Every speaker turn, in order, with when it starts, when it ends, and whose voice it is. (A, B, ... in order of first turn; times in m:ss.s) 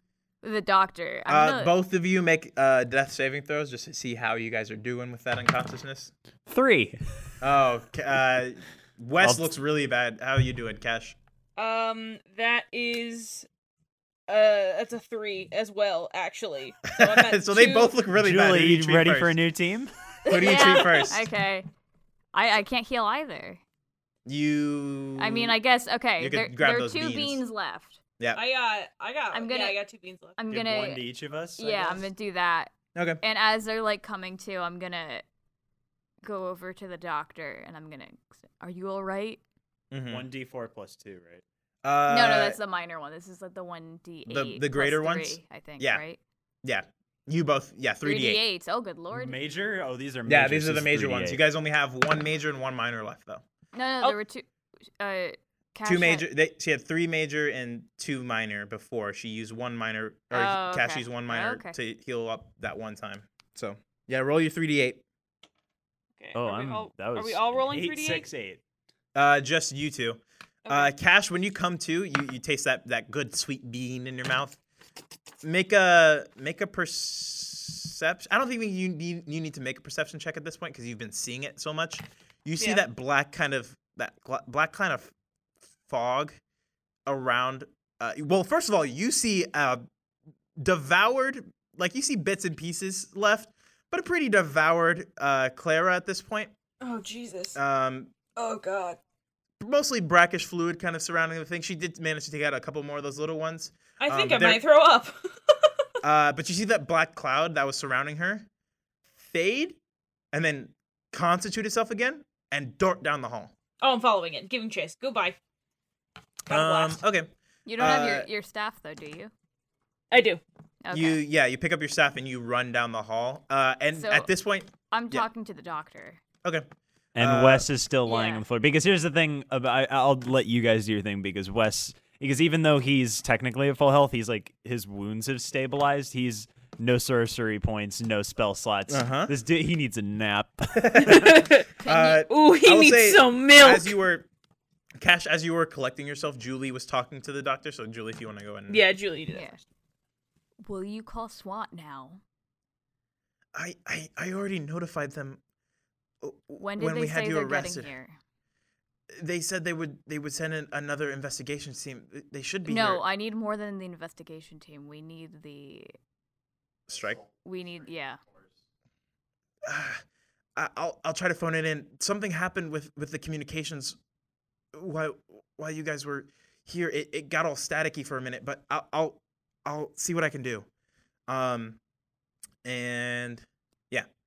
0:00.4-0:01.7 A
0:01.3-0:06.1 B
0:06.5-0:07.0 C
0:07.4-0:11.2 B
0:09.2-0:09.5 C
0:11.6-0:13.5 D
0:14.3-0:17.9 D
0:16.9-0:19.4 B
0:18.1-0:19.9 C
0:20.2-0:21.2 B
0:20.2-0:21.7 A
0:20.4-0:21.0 D
0:22.3-0:23.6 A
0:24.2-0:25.5 B
0:25.2-0:28.0 A
0:26.2-0:27.4 B
0:28.3-0:30.4 D
0:29.3-0:29.8 A
0:30.4-0:31.0 A
0:30.5-0:32.1 C
0:31.6-0:35.2 A
0:32.9-0:33.2 B
0:36.2-0:39.4 A
0:39.9-0:40.2 B
0:40.1-0:41.4 C
0:41.8-0:42.6 B
0:42.1-0:46.2 A
0:44.3-0:46.0 B
0:46.6-0:48.4 B
0:48.0-0:49.3 A
0:49.1-0:51.4 C
0:50.3-0:53.4 B
0:53.7-0:54.4 A
0:55.0-0:56.2 A
0:55.9-1:05.0 B
1:00.3-1:01.7 A
1:06.2-1:08.3 D
1:06.3-1:08.6 C
1:09.1-1:14.6 B
1:10.6-1:10.9 D
1:15.4-1:25.1 B
1:22.6-1:22.8 D
1:25.9-1:26.4 B
1:27.1-1:29.8 B
1:30.6-1:36.5 B
1:36.8-1:37.6 D
1:37.6-1:38.2 B
1:38.3-1:39.0 D
1:39.6-1:44.6 B
1:44.0-1:45.7 D
1:46.0-1:48.4 B
1:49.2-1:49.8 B
1:50.3-1:53.5 B
1:53.8-1:55.4 D
1:56.5-1:57.0 D
1:56.5-1:58.3 B
1:57.7-1:59.3 A
2:00.1-2:00.4 D
2:00.8-2:01.2 A
2:00.9-2:05.3 B
2:03.9-2:04.3 A
2:04.9-2:06.2 A
2:07.2-2:21.2 C
2:07.2-2:07.7 B
2:08.0-2:08.4 A
2:18.9-2:19.3 B
2:20.7-2:24.3 B
2:21.0-2:24.0 D
2:21.8-2:22.2 A
2:25.0-2:28.8 B
2:28.7-2:29.5 D
2:29.3-2:29.6 A
2:30.6-2:32.2 A
2:33.6-2:35.4 B
2:36.2-2:37.9 B
2:36.6-2:38.2 A
2:39.1-2:43.0 B
2:42.7-2:46.0 A
2:46.9-2:47.2 B
2:47.3-2:48.2 A
2:49.6-2:50.0 B
2:50.6-2:54.0 B
2:54.7-3:00.7 B
3:01.3-3:01.8 B
3:02.6-3:04.1 B